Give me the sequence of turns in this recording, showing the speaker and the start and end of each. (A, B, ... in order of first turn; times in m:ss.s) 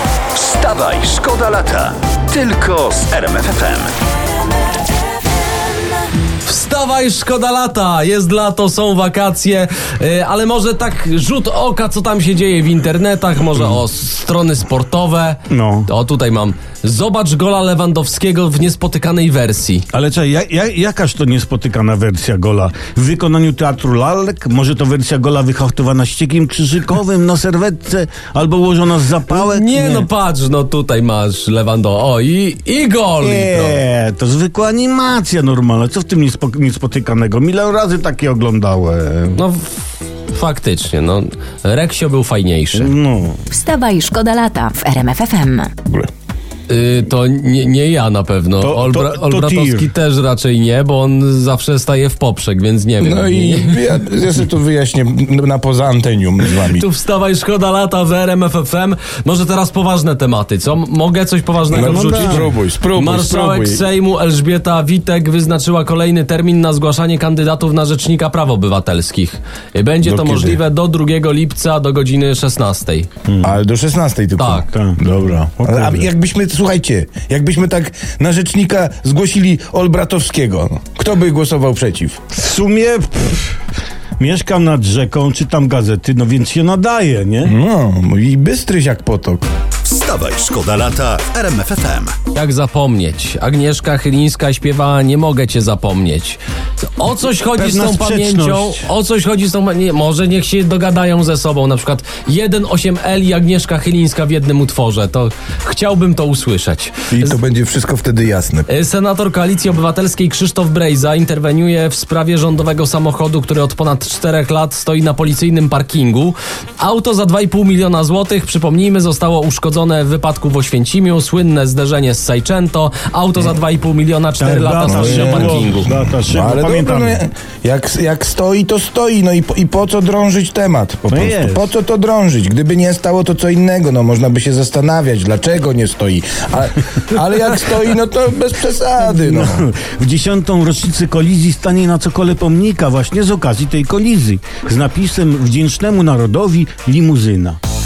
0:00.4-0:04.0 A
0:06.4-0:19.8 B
0:15.5-0:15.9 C
0:19.9-0:30.1 C
0:29.3-0:33.8 B
0:33.2-0:39.4 C
0:39.3-0:39.8 B
0:40.3-0:42.9 B
0:42.7-0:43.4 C
0:43.5-0:45.7 D
0:46.7-0:53.8 B
0:48.6-0:49.9 C
0:53.0-0:56.8 E
0:56.6-1:13.1 B
1:01.7-1:02.5 C
1:01.7-1:03.9 E
1:10.0-1:10.6 E
1:13.3-1:13.5 C
1:13.4-1:22.2 E
1:14.4-1:14.7 B
1:14.7-1:15.0 C
1:15.6-1:16.1 C
1:22.3-1:23.6 C
1:24.2-1:27.6 C
1:27.4-1:29.4 E
1:29.8-1:32.2 A
1:32.3-1:47.4 B
1:37.5-1:38.9 C
1:47.1-1:48.7 E
1:48.7-2:05.9 B
2:04.4-2:07.2 C
2:04.9-2:19.6 E
2:11.1-2:11.7 C
2:19.1-2:27.6 C